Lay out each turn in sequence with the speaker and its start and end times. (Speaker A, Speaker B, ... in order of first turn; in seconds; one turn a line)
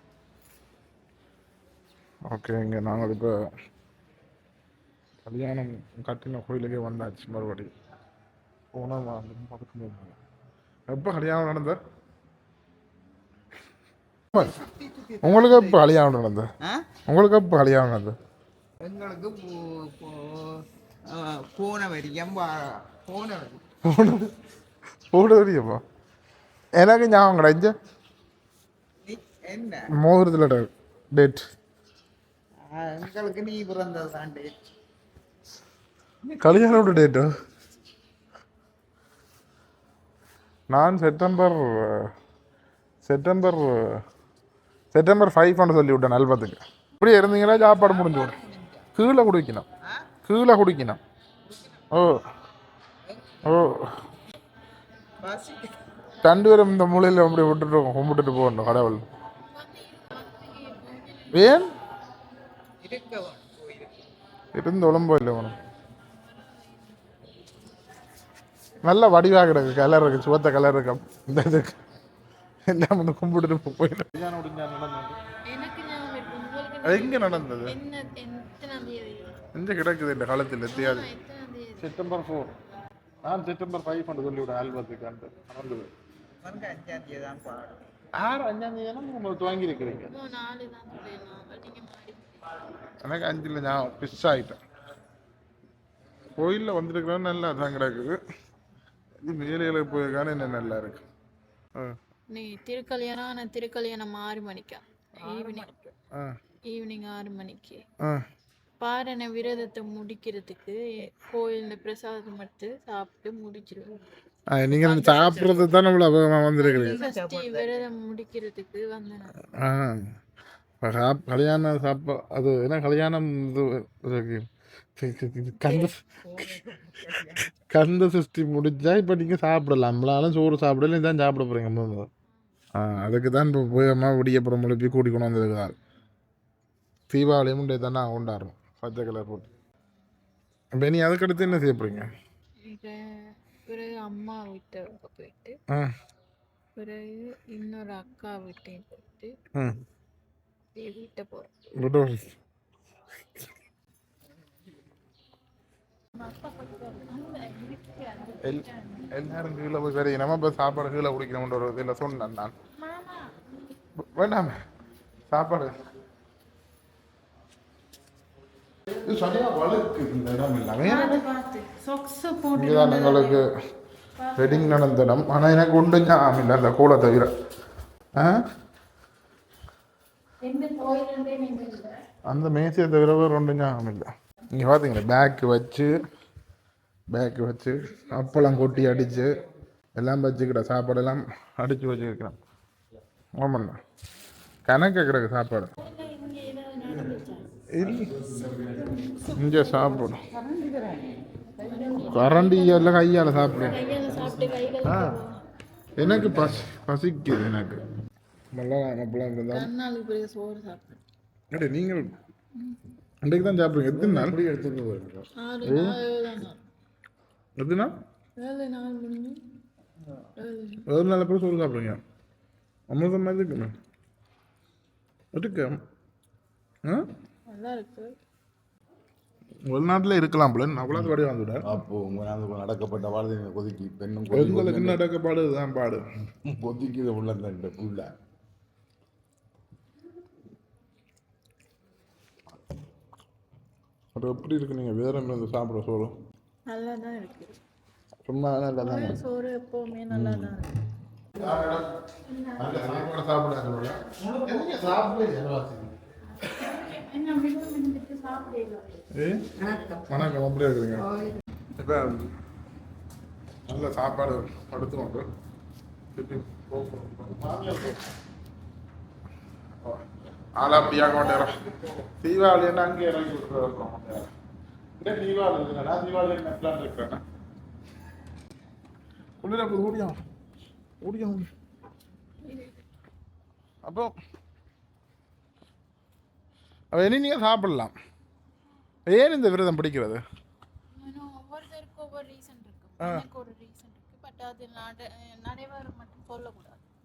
Speaker A: 2.3-3.5
Speaker A: 5.3-7.7
Speaker A: 8.7-10.2
Speaker A: 10.9-11.8
Speaker B: 14.4-15.8
Speaker A: 15.2-16.5
Speaker A: 17.1-18.2
Speaker B: 18.8-23.6
Speaker A: 23.9-24.3
Speaker A: 25.1-25.8
Speaker A: 26.8-27.8
Speaker B: 29.0-29.9
Speaker A: 29.9-31.5
Speaker B: 32.6-34.5
Speaker A: 36.3-37.3
Speaker A: 40.7-42.1
Speaker A: 43.0-44.0
Speaker A: 44.9-48.4
Speaker B: 47.6-48.9
Speaker A: 49.0-49.6
Speaker B: 49.8-50.1
Speaker A: 50.2-51.0
Speaker B: 51.5-51.9
Speaker A: 51.9-52.2
Speaker B: 53.0-53.6
Speaker A: 53.5-54.0
Speaker B: 55.2-55.8
Speaker A: 56.2-59.0
Speaker C: 59.5-61.6
Speaker A: 61.3-61.7
Speaker B: 62.8-63.9
Speaker A: 64.5-65.6
Speaker C: 66.2-67.1
Speaker A: 68.8-71.8
Speaker A: 72.7-75.2
Speaker C: 75.5-79.3
Speaker A: 76.8-77.8
Speaker A: 79.5-81.1
Speaker C: 80.7-82.0
Speaker A: 81.8-82.5
Speaker A: 83.2-85.9
Speaker B: 86.4-87.8
Speaker A: 88.2-90.1
Speaker C: 90.1-92.4
Speaker A: 93.0-94.6
Speaker A: 96.4-98.2
Speaker A: 99.2-101.0
Speaker C: 102.3-105.7
Speaker B: 105.2-105.9
Speaker C: 106.7-107.8
Speaker C: 108.8-113.9
Speaker A: 114.5-117.0
Speaker B: 114.8-115.7
Speaker B: 116.6-117.8
Speaker C: 116.7-119.3
Speaker A: 119.5-120.1
Speaker A: 120.8-126.0
Speaker B: 125.6-127.6
Speaker A: 127.7-132.1
Speaker A: 132.7-135.8
Speaker A: 137.1-139.5
Speaker A: 140.7-142.1
Speaker C: 142.6-145.6
Speaker C: 146.8-149.3
Speaker A: 149.6-149.8
Speaker C: 150.8-151.5
Speaker A: 151.8-152.3
Speaker C: 156.2-159.1
Speaker A: 158.4-162.5
Speaker C: 162.8-163.3
Speaker A: 164.0-164.6
Speaker A: 165.3-165.8
Speaker A: 169.1-171.2
Speaker C: 170.8-173.4
Speaker A: 172.6-173.5
Speaker C: 174.2-174.8
Speaker A: 174.4-177.3
Speaker A: 178.1-178.5
Speaker C: 180.4-182.0
Speaker A: 182.3-186.0
Speaker A: 187.1-189.4
Speaker A: 189.9-192.4
Speaker A: 193.4-193.8
Speaker A: 194.7-195.7
Speaker C: 195.8-197.5
Speaker A: 197.7-198.2
Speaker D: 198.3-198.6
Speaker A: 199.4-200.2
Speaker B: 200.3-202.3
Speaker C: 201.6-205.4
Speaker A: 202.1-203.9
Speaker A: 204.8-205.2
Speaker A: 206.0-207.8
Speaker A: 208.5-209.7
Speaker C: 209.5-211.0
Speaker A: 211.5-212.2
Speaker A: 213.2-214.4
Speaker D: 213.9-215.3
Speaker C: 215.4-216.6
Speaker A: 215.6-216.0
Speaker A: 217.6-217.9
Speaker C: 218.4-219.4
Speaker C: 220.4-220.9
Speaker A: 220.9-222.0
Speaker A: 222.9-223.8
Speaker A: 225.3-225.8
Speaker C: 227.5-228.2
Speaker A: 229.7-231.7
Speaker D: 230.9-235.0
Speaker A: 234.3-236.1
Speaker D: 236.4-238.1
Speaker A: 244.2-246.2
Speaker C: 246.7-247.5
Speaker A: 248.2-249.2
Speaker C: 248.8-250.8
Speaker D: 250.1-250.5
Speaker A: 251.4-251.9
Speaker C: 252.3-252.6
Speaker A: 252.6-256.0
Speaker B: 254.2-254.8
Speaker C: 256.4-259.0
Speaker A: 259.1-259.4
Speaker B: 259.6-260.1
Speaker A: 260.1-261.1
Speaker B: 261.0-261.4
Speaker A: 261.8-262.3
Speaker A: 263.7-265.3
Speaker A: 266.1-268.1
Speaker A: 270.6-271.6
Speaker A: 272.2-274.3
Speaker A: 275.0-277.2
Speaker A: 279.4-280.2
Speaker A: 281.0-281.5
Speaker C: 282.4-282.8
Speaker A: 283.8-284.1
Speaker A: 286.9-287.9
Speaker A: 289.1-290.2
Speaker C: 290.9-296.8